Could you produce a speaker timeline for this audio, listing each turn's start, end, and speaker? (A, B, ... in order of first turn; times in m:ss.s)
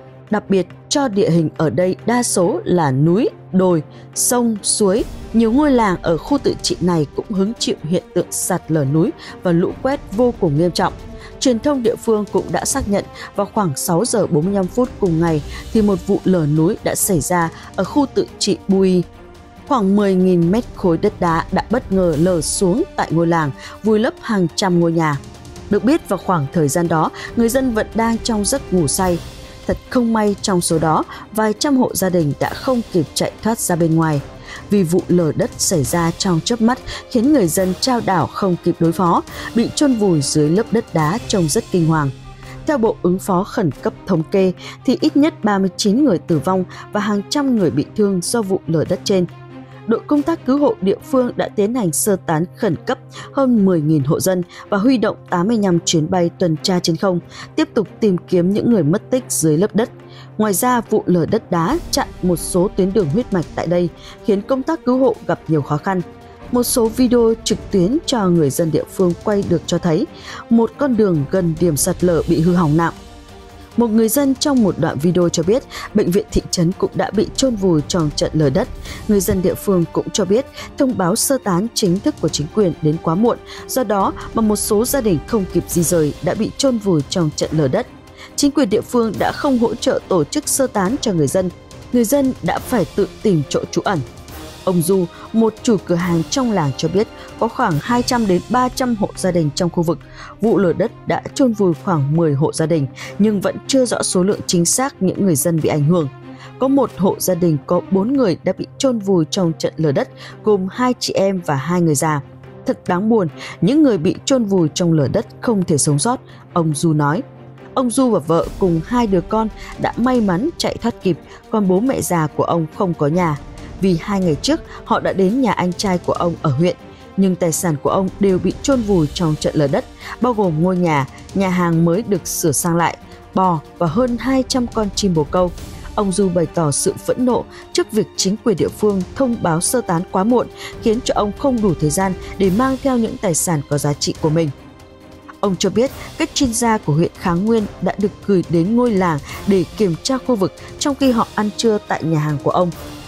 0:00.3-0:19.0 A
0:19.7-0:42.1 A
0:42.6-0:49.3 A
0:49.9-1:12.9 A
1:13.8-1:34.0 A
1:34.6-1:57.2 A
1:57.7-2:24.5 A
2:25.4-2:32.7 A